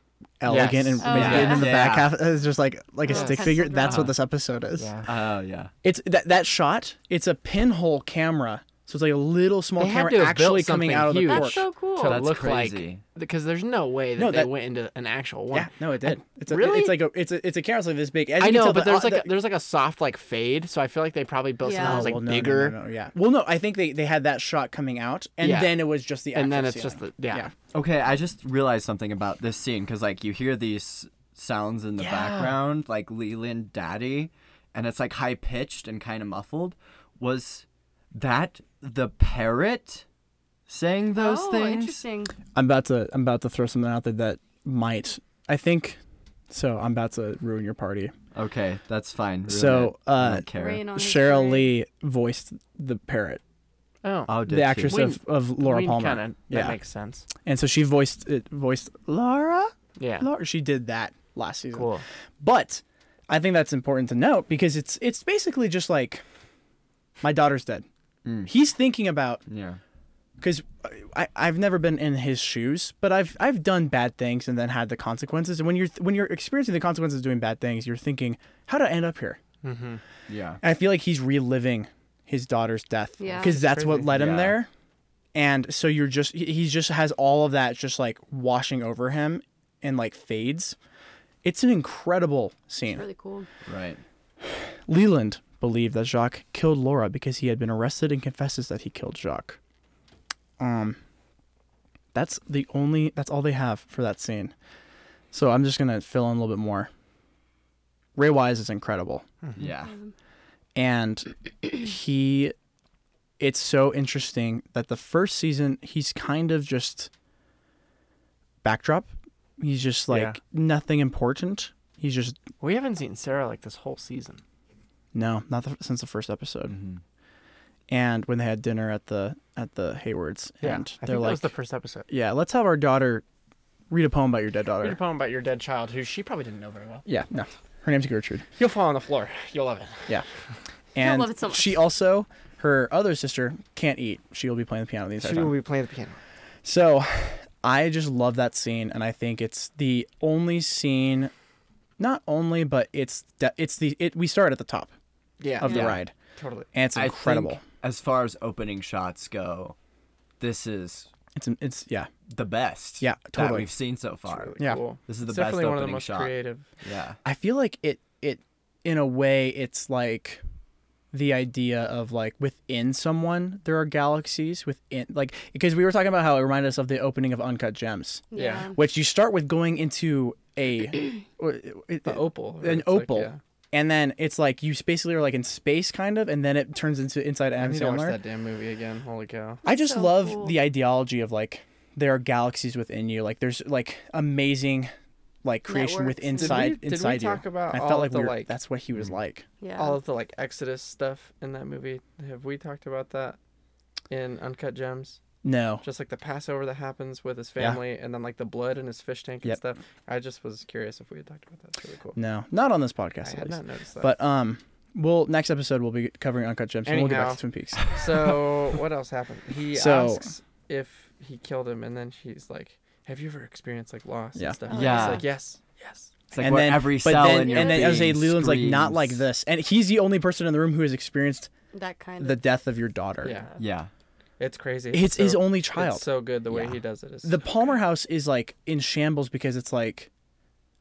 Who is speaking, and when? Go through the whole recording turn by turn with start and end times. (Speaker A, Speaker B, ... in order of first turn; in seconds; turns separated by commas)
Speaker A: 0.4-4.9, Speaker B: 0.5-1.8, Speaker C: 1.0-1.7, Speaker D: 1.1-2.1, Speaker C: 3.0-4.1, Speaker B: 3.1-4.1, Speaker B: 4.8-5.1, Speaker D: 5.0-5.7, Speaker A: 5.8-11.6, Speaker B: 9.8-17.0, Speaker C: 11.2-12.2, Speaker D: 12.0-13.0, Speaker A: 14.2-14.5, Speaker A: 15.5-19.3, Speaker B: 18.4-22.7, Speaker C: 21.6-22.1, Speaker A: 21.8-27.5, Speaker B: 25.4-27.5, Speaker D: 27.7-40.0, Speaker A: 32.0-32.5, Speaker D: 40.7-42.0, Speaker C: 41.1-42.3, Speaker A: 42.5-48.1, Speaker D: 48.3-50.8, Speaker A: 49.5-53.4, Speaker C: 50.5-51.7, Speaker B: 54.0-54.3, Speaker D: 54.3-55.0, Speaker A: 54.4-56.8, Speaker B: 54.9-57.2, Speaker A: 57.4-66.2, Speaker B: 60.0-60.3, Speaker B: 61.7-62.0, Speaker A: 67.2-67.8, Speaker D: 68.2-68.5, Speaker A: 68.4-69.4, Speaker D: 69.5-69.8, Speaker A: 70.4-79.4, Speaker B: 79.6-80.0, Speaker D: 80.3-80.6, Speaker A: 80.6-84.7, Speaker C: 83.2-83.5, Speaker B: 83.3-84.2, Speaker D: 84.1-84.6, Speaker A: 85.3-90.8, Speaker A: 91.4-93.0, Speaker C: 92.8-93.5, Speaker D: 93.7-94.0, Speaker A: 94.4-99.6, Speaker A: 100.6-101.0, Speaker A: 102.1-104.5, Speaker A: 105.3-106.9, Speaker A: 108.2-109.2, Speaker D: 109.5-109.9, Speaker A: 110.8-112.5, Speaker A: 113.4-117.1, Speaker A: 118.6-122.4, Speaker B: 120.1-120.4, Speaker B: 122.6-124.4, Speaker A: 125.1-126.8, Speaker D: 126.7-127.0, Speaker A: 127.9-131.5, Speaker B: 130.6-132.1, Speaker A: 132.1-133.2, Speaker A: 133.9-135.0, Speaker B: 134.8-137.1, Speaker A: 137.1-138.5, Speaker B: 138.6-140.1, Speaker A: 140.9-145.5, Speaker C: 141.0-141.8, Speaker B: 145.2-146.2, Speaker A: 146.6-151.3, Speaker A: 152.0-154.9, Speaker B: 155.4-156.7, Speaker A: 155.6-156.1, Speaker D: 155.6-156.0, Speaker A: 156.7-157.6, Speaker D: 156.9-159.8, Speaker D: 160.4-161.1, Speaker A: 161.3-162.1, Speaker D: 162.3-167.2, Speaker A: 163.0-163.7, Speaker B: 164.3-166.7, Speaker A: 167.2-170.4, Speaker A: 171.1-188.2, Speaker C: 178.3-178.8, Speaker B: 178.3-178.7, Speaker B: 182.0-183.4, Speaker B: 187.6-189.6, Speaker C: 189.6-190.6, Speaker A: 189.6-194.9, Speaker A: 195.4-199.4, Speaker C: 195.7-196.7, Speaker B: 196.3-198.5, Speaker C: 199.6-200.0, Speaker B: 199.8-203.4, Speaker B: 204.1-205.2, Speaker A: 205.4-205.8, Speaker B: 205.8-212.2, Speaker A: 212.2-217.9, Speaker B: 213.2-214.1, Speaker B: 216.8-226.2, Speaker A: 219.7-220.3, Speaker A: 224.3-224.6, Speaker C: 224.7-225.2, Speaker D: 224.7-225.2, Speaker D: 226.3-229.2, Speaker A: 226.4-231.5, Speaker C: 227.4-227.9, Speaker C: 231.7-232.4, Speaker A: 232.2-233.4, Speaker B: 233.2-233.5, Speaker D: 233.6-233.9, Speaker B: 234.4-237.8, Speaker A: 234.9-236.0, Speaker A: 237.2-240.1